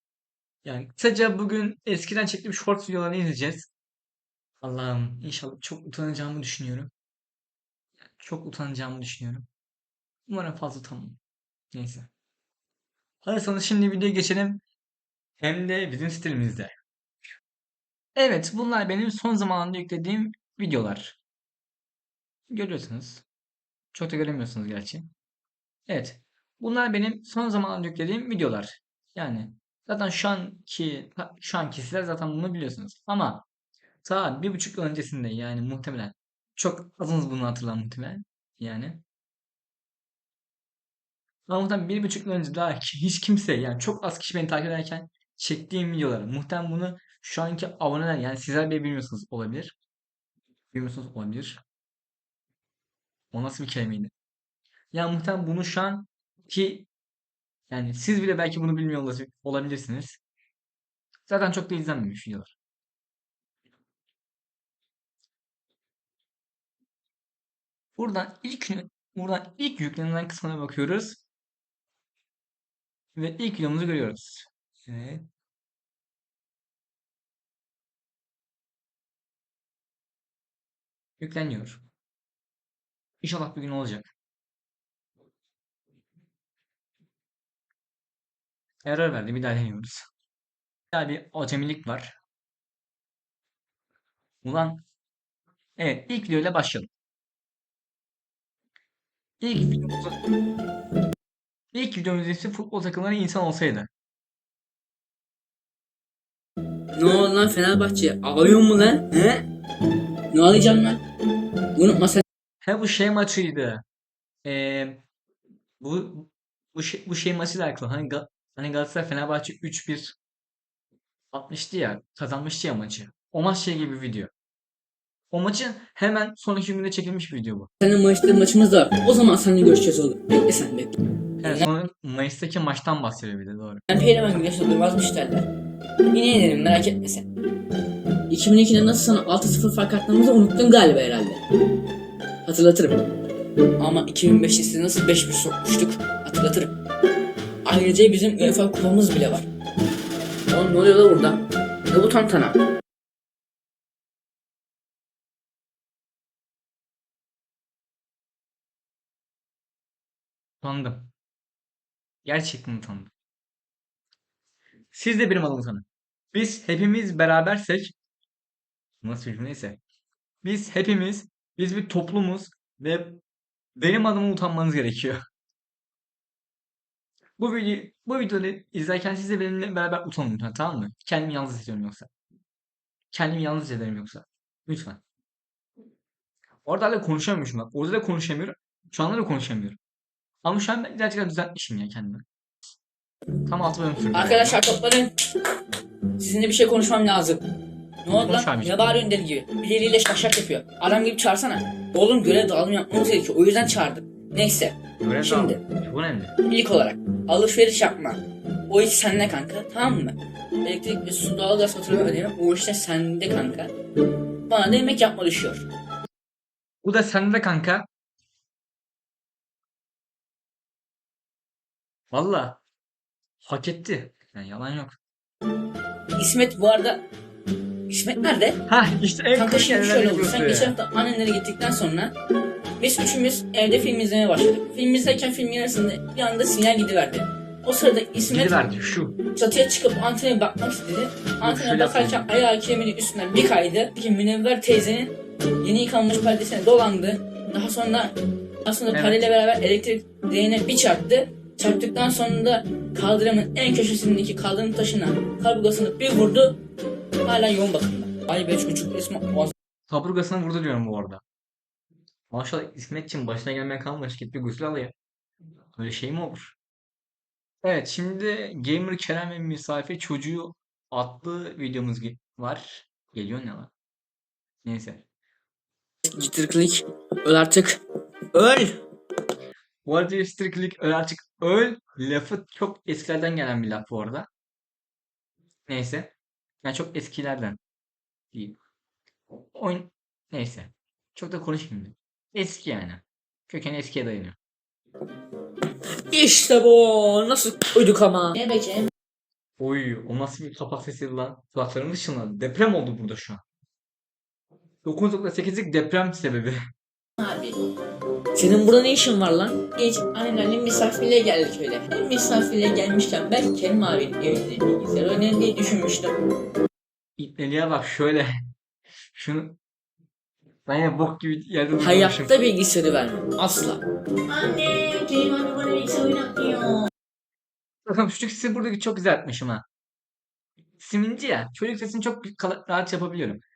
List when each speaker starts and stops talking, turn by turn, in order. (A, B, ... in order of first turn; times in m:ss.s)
0:00.6-0:03.7 A
0:04.6-0:06.9 A
0:08.2-0:09.5 A
0:10.3-0:11.2 A
0:11.7-0:12.1 A
0:13.2-0:14.6 A
0:15.4-0:16.7 A
0:18.2-0:21.2 A
0:22.5-0:23.2 A
0:23.9-0:25.1 A
0:25.9-0:33.4 A
0:34.0-0:39.0 A
0:41.5-0:49.8 A
0:50.7-0:51.6 A
0:53.3-0:54.1 A
0:54.9-0:56.9 A
0:57.7-1:00.2 A
1:01.3-1:02.5 A
1:08.0-1:11.2 A
1:13.1-1:15.2 A
1:21.2-1:21.8 A
1:23.2-1:24.1 A
1:28.8-1:30.1 A
1:30.9-1:32.2 A
1:34.4-1:34.8 A
1:35.8-1:36.9 A
1:39.4-1:40.2 A
1:41.7-1:43.9 A
1:47.0-1:49.4 B
1:50.3-1:51.0 B
1:51.8-1:52.2 B
1:52.6-1:53.8 A
1:54.4-1:55.0 A
1:55.8-2:00.2 A
2:01.3-2:04.3 A
2:05.3-2:07.7 A
2:07.8-2:11.7 B
2:11.4-2:13.8 A
2:13.9-2:15.5 B
2:16.1-2:17.3 B
2:18.3-2:21.4 B
2:22.4-2:23.0 B
2:23.8-2:26.7 B
2:27.6-2:29.5 B
2:30.5-2:32.6 B
2:40.6-2:41.1 A
2:42.2-2:43.1 A
2:44.9-2:47.9 A
2:49.0-2:49.8 A
2:50.4-2:53.2 A
2:53.8-2:55.2 A
2:57.4-3:02.1 A
3:03.1-3:05.0 A
3:06.6-3:09.8 A
3:10.4-3:12.2 A
3:13.5-3:14.6 A
3:14.1-3:15.1 B
3:16.2-3:17.4 B
3:18.0-3:25.6 B
3:18.2-3:18.8 A
3:25.0-3:26.3 A
3:26.4-3:33.7 B
3:34.5-3:35.6 B
3:36.8-3:37.8 A
3:42.1-3:42.6 A
3:43.4-3:45.0 A
3:46.2-3:47.0 B
3:47.9-3:48.6 B
3:48.7-3:50.7 A
3:49.3-3:52.1 B
3:52.8-3:58.6 B
3:58.3-3:59.2 A
3:59.3-4:08.1 B
4:01.4-4:02.3 A
4:08.6-4:16.6 B
4:08.9-4:09.2 A
4:17.2-4:19.5 B
4:19.9-4:21.2 A
4:22.3-4:24.9 A
4:25.8-4:26.5 A
4:27.6-4:33.7 A
4:34.6-4:35.0 A
4:36.0-4:37.8 B
4:38.3-4:38.8 B
4:39.8-4:44.3 A
4:45.7-4:46.1 A
4:46.6-4:47.6 A
4:48.3-4:48.6 A
4:49.5-4:54.4 A
4:56.1-4:58.9 B
4:59.6-5:03.4 A
5:04.8-5:06.6 A
5:07.2-5:07.6 B
5:08.3-5:16.1 B
5:17.2-5:18.3 A
5:19.1-5:19.6 A
5:20.6-5:22.5 A
5:21.8-5:26.9 B
5:27.9-5:29.6 A
5:30.8-5:33.4 A